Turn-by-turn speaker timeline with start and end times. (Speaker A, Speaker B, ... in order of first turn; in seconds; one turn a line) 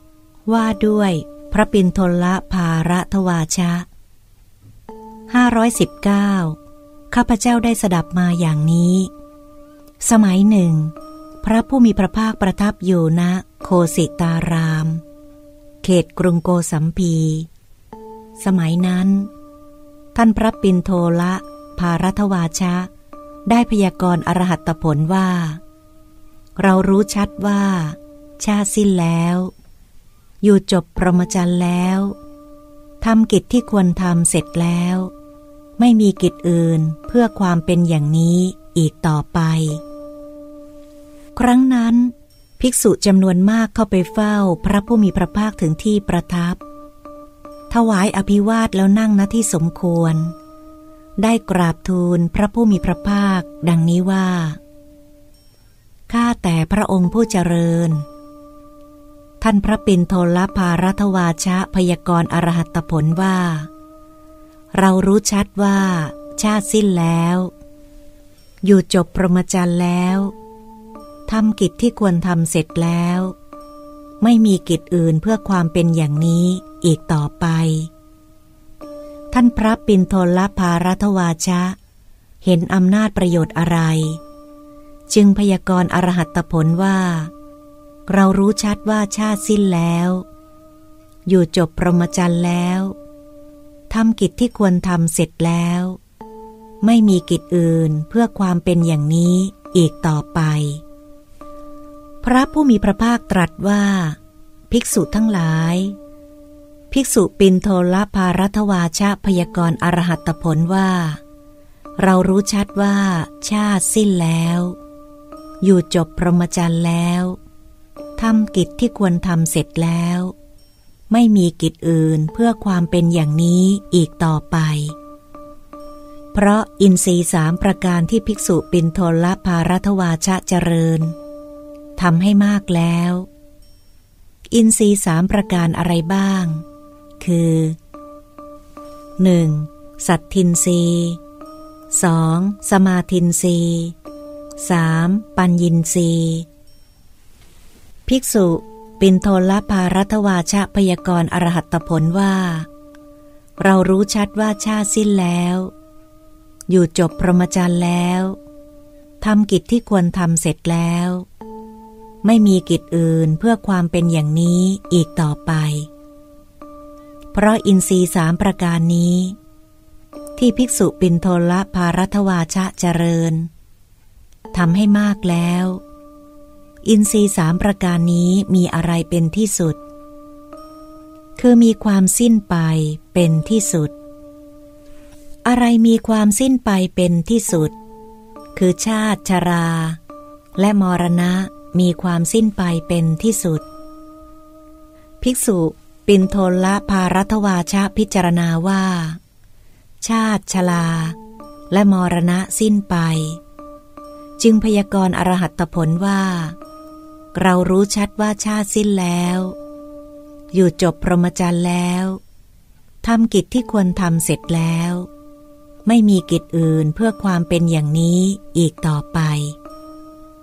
Speaker A: 0.5-3.9
Speaker A: 5.3-6.6
Speaker A: 7.1-9.1
Speaker A: 10.0-15.0
Speaker A: 15.8-17.5
Speaker A: 18.4-19.3
Speaker A: 20.1-22.9
Speaker A: 23.5-25.6
Speaker A: 26.6-29.5
Speaker A: 30.4-32.2
Speaker A: 33.0-35.1
Speaker A: 35.8-39.8
Speaker A: 41.4-46.6
Speaker A: 47.7-50.4
Speaker A: 51.2-54.6
Speaker A: 56.1-58.0
Speaker A: 59.4-63.7
Speaker A: 64.7-67.5
Speaker A: 68.6-70.3
Speaker A: 71.3-73.3
Speaker A: 74.2-77.9
Speaker A: 79.3-81.8
Speaker A: 82.4-84.2
Speaker A: 85.1-87.3
Speaker A: 88.1-90.3
Speaker A: 91.3-93.0
Speaker A: 93.9-96.0
Speaker A: 96.8-100.8
Speaker A: 102.2-104.2
Speaker A: 104.7-106.0
Speaker A: 106.9-111.2
Speaker A: 112.0-114.8
Speaker A: 115.6-117.4
Speaker A: 118.2-120.3
Speaker A: 121.1-125.0
Speaker A: 126.3-131.2
Speaker A: 132.0-133.3
Speaker A: 134.5-136.6
Speaker A: 137.2-137.8
Speaker A: 139.2-141.2
Speaker A: 141.9-143.9
Speaker A: 144.6-146.5
Speaker A: 148.1-152.7
Speaker A: 153.6-155.7
Speaker A: 156.7-158.4
Speaker A: 159.2-161.3
Speaker A: 162.2-165.9
Speaker A: 167.3-169.4
Speaker A: 170.4-173.5
Speaker A: 174.5-175.8
Speaker A: 176.8-179.8
Speaker A: 181.4-183.9
Speaker A: 185.4-187.8
Speaker A: 188.6-190.0
Speaker A: 190.6-193.7
Speaker A: 195.2-199.2
Speaker A: 200.0-201.2
Speaker A: 201.7-203.4
Speaker A: 204.4-206.6
Speaker A: 207.3-209.6
Speaker A: 210.5-212.2
Speaker A: 213.0-215.1
Speaker A: 215.8-219.6